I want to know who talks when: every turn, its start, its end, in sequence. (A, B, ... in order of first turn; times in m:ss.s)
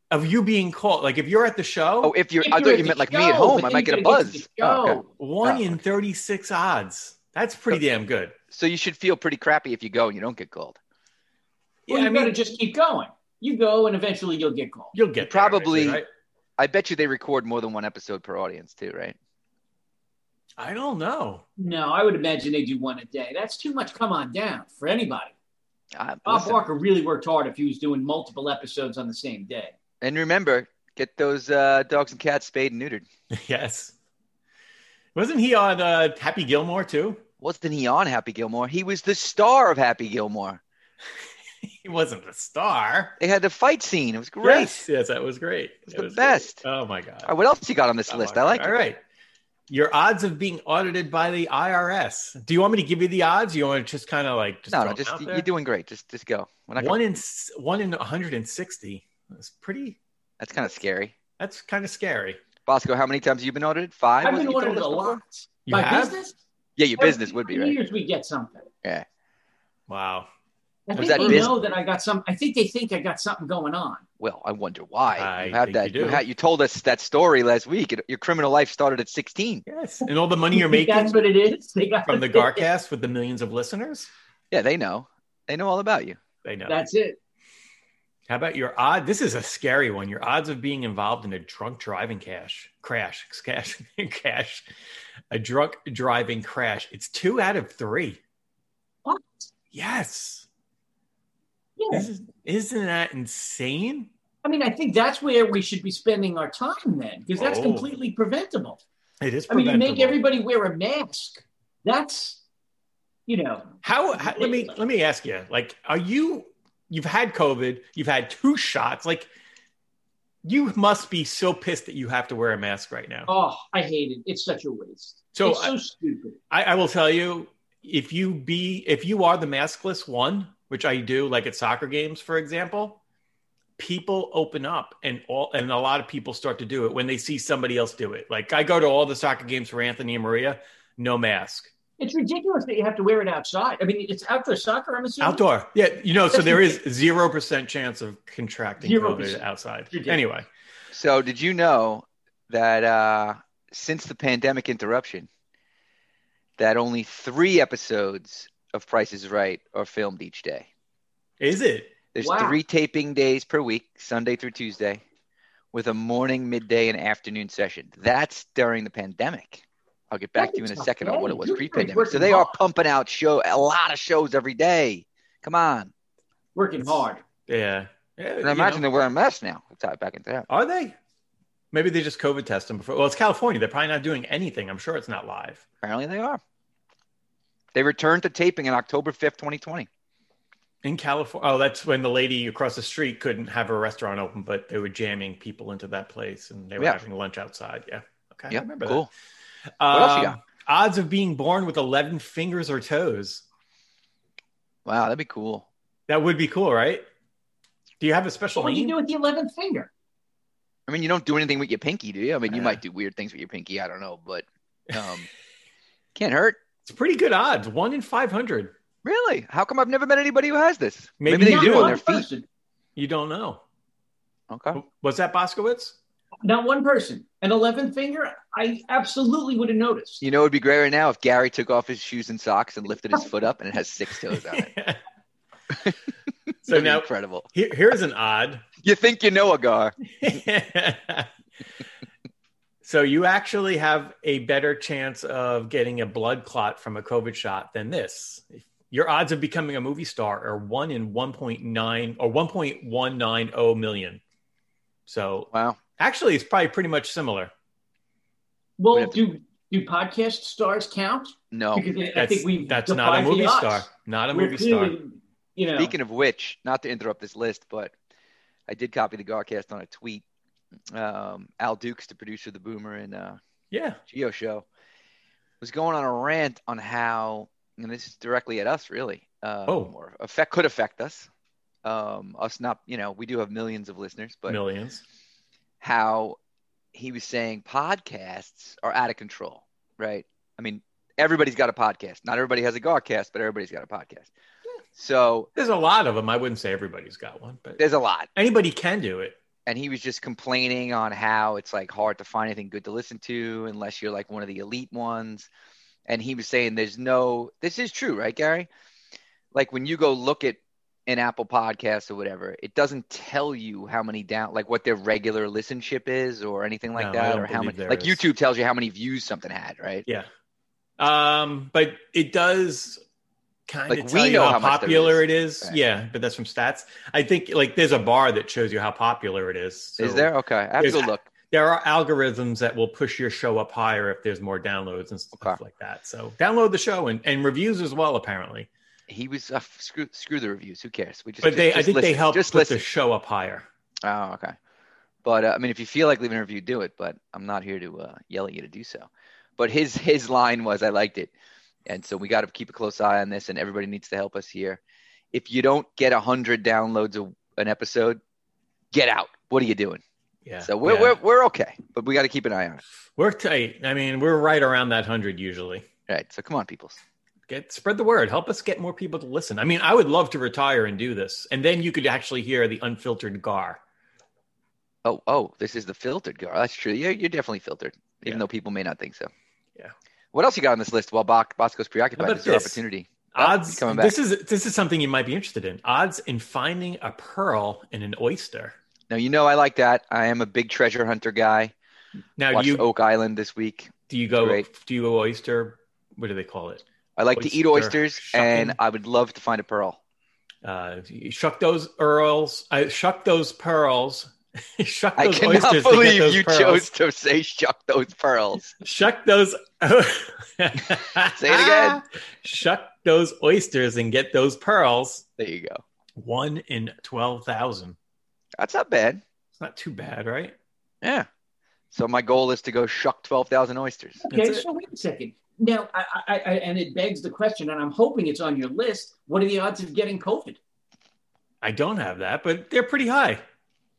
0:00.1-0:02.1 A
0:02.0-0:05.8 B
0:02.4-0:05.0 C
0:05.2-0:08.4 A
0:08.5-0:10.8 B
0:11.9-0:12.4 A
0:11.9-0:14.9 C
0:14.9-0:16.1 A
0:15.2-0:16.0 B
0:16.6-0:19.2 B
0:20.6-0:21.4 A
0:21.6-0:25.3 C
0:25.9-0:26.6 B
0:26.2-0:29.8 C
0:30.0-0:33.1 B
0:33.3-0:33.9 A
0:35.2-0:37.2 A
0:37.4-0:40.6 B
0:41.6-0:43.2 A
0:43.2-0:44.9 B
0:44.4-0:47.3 A
0:45.9-0:46.6 B
0:47.2-0:48.8 B
0:48.1-0:49.0 A
0:49.7-0:55.5 A
0:54.7-0:57.0 B
0:56.8-1:00.0 A
1:00.4-1:01.1 B
1:01.4-1:02.4 A
1:02.7-1:05.2 B
1:04.2-1:06.4 C
1:05.7-1:06.2 A
1:06.8-1:07.8 B
1:07.0-1:08.7 C
1:09.9-1:10.3 A
1:10.9-1:14.0 C
1:10.9-1:11.5 B
1:11.0-1:11.6 A
1:14.2-1:19.6 B
1:15.2-1:16.2 A
1:19.7-1:21.2 A
1:20.5-1:22.7 C
1:22.1-1:24.1 A
1:24.5-1:26.2 B
1:26.4-1:26.8 A
1:26.7-1:27.2 C
1:28.3-1:34.6 A
1:35.3-1:38.2 A
1:39.0-1:39.5 C
1:39.7-1:40.5 A
1:41.8-1:42.0 C
1:41.9-1:44.1 A
1:44.4-1:48.8 C
1:47.4-1:47.9 A
1:49.2-1:50.2 A
1:49.5-1:52.4 C
1:53.3-1:54.8 C
1:53.8-1:59.3 A
2:00.4-2:03.3 A
2:03.3-2:06.4 C
2:05.3-2:05.7 A
2:06.5-2:13.0 A
2:13.8-2:21.7 A
2:22.0-2:25.4 C
2:25.2-2:30.5 A
2:26.3-2:26.8 C
2:28.8-2:30.2 C
2:30.9-2:35.3 B
2:36.6-2:40.7 B
2:41.4-2:41.9 A
2:42.1-2:45.0 B
2:42.2-2:42.6 C
2:45.7-2:55.9 B
2:50.4-2:52.6 C
2:56.6-2:57.2 C
2:56.8-2:58.8 A
2:58.4-3:00.5 B
3:00.5-3:01.0 A
3:01.7-3:05.6 A
3:05.8-3:06.4 B
3:07.7-3:09.9 B
3:10.8-3:19.0 A
3:18.5-3:19.1 B
3:19.8-3:23.4 A
3:19.9-3:20.4 B
3:24.8-3:25.7 B
3:26.1-3:27.0 A
3:28.0-3:28.9 A
3:28.6-3:29.9 C
3:30.9-3:35.3 B
3:36.2-3:36.6 B
3:36.9-3:38.7 A
3:39.0-3:42.2 B
3:41.2-3:42.0 A
3:41.4-3:42.5 C
3:43.0-3:43.6 A
3:44.5-3:44.8 B
3:44.7-3:46.0 A
3:46.4-3:50.2 C
3:50.2-3:54.7 B
3:54.3-3:55.0 A
3:56.6-3:57.5 B
3:56.6-3:58.6 A
3:58.8-4:00.0 B
4:00.2-4:01.3 A
4:02.8-4:14.2 A
4:15.1-4:17.5 A
4:15.5-4:15.8 B
4:18.8-4:25.9 C
4:18.9-4:19.2 B
4:21.5-4:21.9 B
4:22.2-4:25.0 A
4:25.8-4:27.9 B
4:28.7-4:30.2 B
4:30.9-4:33.4 B
4:33.7-4:34.0 A
4:34.1-4:34.7 B
4:35.6-4:41.3 B
4:41.8-4:44.6 B
4:44.5-4:45.0 A
4:45.8-4:46.4 B
4:46.9-4:54.3 B
4:55.0-4:55.5 B
4:55.6-4:57.8 A
4:57.8-4:58.3 B
4:58.4-4:59.4 A
4:59.7-5:05.5 B
5:06.1-5:08.7 B
5:09.5-5:20.1 B
5:16.9-5:18.2 A
5:21.0-5:23.0 A
5:23.7-5:30.3 A
5:23.9-5:25.8 B
5:30.0-5:31.3 B
5:30.8-5:38.7 A
5:35.4-5:35.6 B
5:39.1-5:42.8 B
5:41.4-5:43.7 A
5:44.0-5:44.6 B
5:45.2-5:51.3 B
5:51.9-5:54.8 B
5:55.3-5:58.2 B
5:58.9-6:00.0 B
6:00.4-6:01.2 A
6:00.6-6:02.8 B
6:03.2-6:05.8 A
6:06.1-6:07.0 B
6:07.5-6:13.8 A
6:15.0-6:19.3 B
6:20.3-6:24.2 B
6:22.2-6:22.8 A
6:23.3-6:28.7 A
6:29.1-6:31.7 B
6:32.4-6:32.8 A
6:32.5-6:34.6 B
6:34.1-6:36.8 A
6:37.2-6:40.0 B
6:37.4-6:38.8 A
6:40.6-6:46.9 A
6:45.2-6:48.8 B
6:48.8-6:55.2 A
6:51.4-6:52.0 B
6:55.4-6:55.8 B
6:56.2-6:58.0 A
6:58.6-6:59.2 B
6:59.6-7:00.6 A
7:01.0-7:01.3 B
7:01.9-7:04.3 B
7:04.2-7:10.6 C
7:04.3-7:04.6 A
7:11.6-7:13.4 A